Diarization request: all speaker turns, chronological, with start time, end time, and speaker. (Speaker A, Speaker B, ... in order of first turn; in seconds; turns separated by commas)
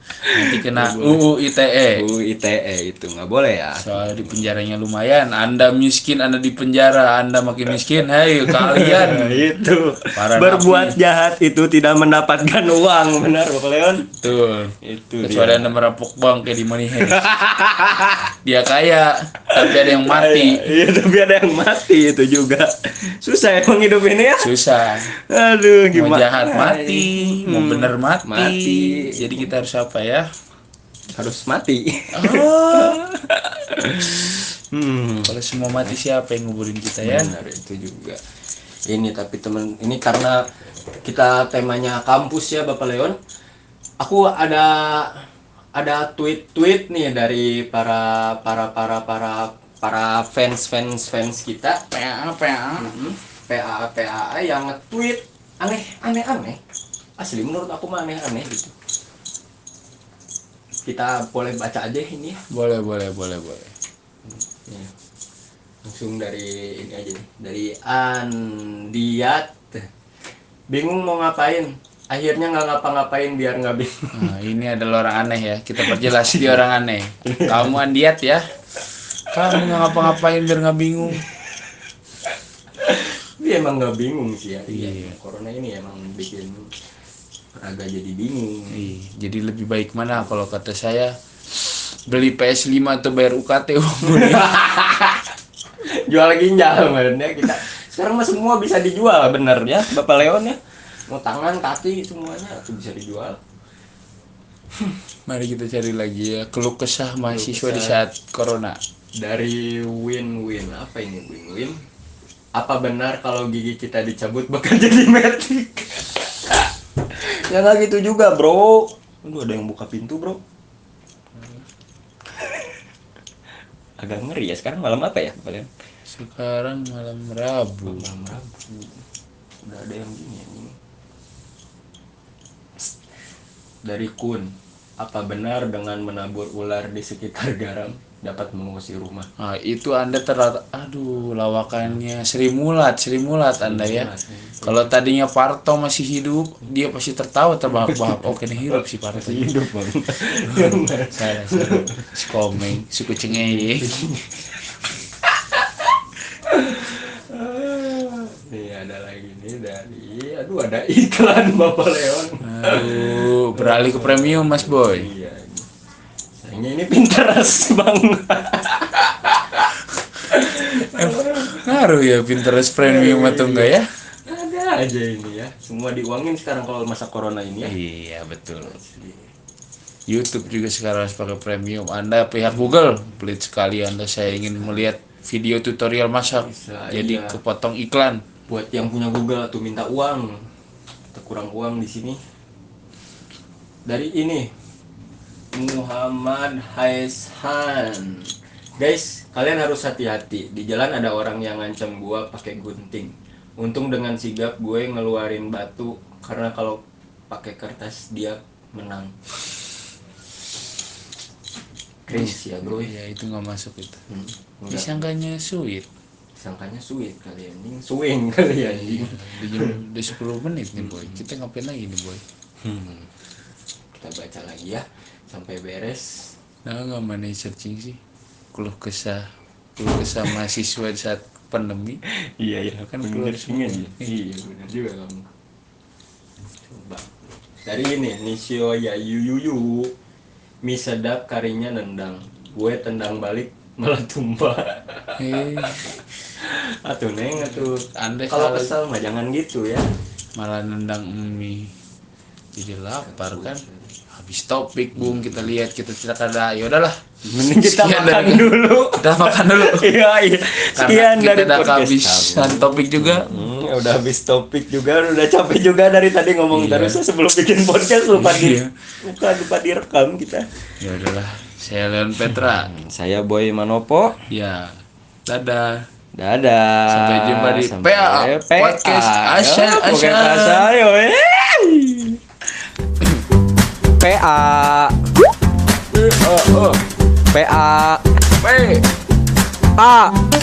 Speaker A: 0.3-1.2, Speaker B: 0.3-2.0, Speaker A: 1.9-4.5, Speaker B: 3.8-9.5, Speaker A: 8.4-14.2, Speaker B: 10.2-11.0, Speaker B: 14.2-17.3, Speaker A: 14.8-15.7, Speaker A: 17.1-18.3, Speaker B: 18.4-20.6, Speaker A: 19.5-24.5, Speaker B: 24.4-25.1, Speaker A: 25.2-29.5, Speaker B: 25.9-30.3, Speaker A: 31.1-36.0, Speaker B: 32.1-33.0, Speaker B: 35.3-37.3, Speaker A: 37.0-38.2, Speaker A: 38.9-40.4, Speaker A: 41.0-43.2, Speaker A: 44.0-45.2, Speaker A: 45.8-51.9, Speaker B: 51.9-53.0, Speaker A: 52.8-56.6, Speaker A: 57.2-58.7, Speaker A: 60.9-62.4, Speaker B: 62.5-63.7, Speaker A: 64.3-64.9, Speaker A: 65.8-69.9, Speaker A: 70.7-74.3, Speaker B: 74.1-78.5, Speaker A: 75.8-76.6, Speaker A: 77.2-77.7, Speaker B: 79.3-81.2, Speaker A: 79.5-80.2, Speaker A: 81.2-81.7, Speaker A: 82.8-86.7, Speaker B: 84.7-85.2, Speaker A: 87.6-88.9, Speaker B: 88.7-91.1, Speaker B: 92.1-94.8, Speaker A: 94.0-95.3, Speaker A: 95.8-103.4, Speaker B: 105.3-108.8, Speaker A: 107.2-108.0, Speaker A: 109.2-111.8, Speaker A: 112.6-120.4, Speaker A: 122.4-122.7, Speaker A: 124.0-125.7, Speaker B: 126.1-128.1, Speaker A: 127.9-129.0, Speaker A: 129.6-130.7, Speaker A: 133.8-139.3, Speaker B: 139.4-144.1, Speaker A: 143.6-144.8, Speaker B: 144.6-149.5, Speaker A: 147.9-148.2, Speaker A: 148.7-152.7, Speaker B: 150.5-154.0, Speaker A: 153.3-154.7, Speaker A: 155.2-165.7, Speaker B: 162.4-165.1, Speaker A: 166.4-169.7, Speaker A: 170.3-171.8, Speaker B: 170.3-173.9, Speaker A: 172.8-173.7, Speaker A: 174.3-177.8, Speaker B: 177.7-178.8, Speaker A: 178.7-179.3, Speaker B: 180.1-188.2, Speaker A: 186.4-187.4, Speaker A: 188.5-190.5, Speaker A: 191.1-192.2, Speaker A: 193.9-194.5, Speaker A: 195.5-209.1, Speaker A: 212.1-212.9, Speaker B: 212.1-214.0, Speaker A: 214.1-215.0, Speaker B: 214.7-215.9, Speaker A: 216.4-219.8, Speaker B: 218.7-222.2, Speaker A: 220.8-221.2, Speaker A: 222.6-223.1, Speaker A: 223.9-226.3, Speaker B: 226.7-228.0, Speaker B: 228.5-229.3, Speaker B: 229.8-232.0, Speaker A: 232.1-235.3, Speaker B: 232.9-234.0, Speaker A: 236.6-239.9, Speaker A: 240.6-245.8, Speaker B: 245.2-246.0, Speaker A: 246.4-249.9, Speaker B: 247.4-248.7, Speaker B: 250.4-251.7, Speaker B: 252.6-253.6, Speaker A: 253.0-253.9, Speaker B: 254.2-256.9, Speaker A: 257.2-270.5, Speaker B: 257.6-259.9, Speaker B: 260.8-263.3, Speaker B: 266.5-267.0, Speaker B: 268.1-268.7, Speaker B: 270.8-272.7, Speaker A: 272.5-274.2, Speaker B: 274.3-275.8, Speaker A: 276.2-282.2, Speaker B: 276.9-280.7, Speaker A: 284.0-285.1, Speaker B: 285.9-286.8, Speaker A: 287.3-288.2, Speaker B: 288.4-288.9, Speaker A: 289.8-290.2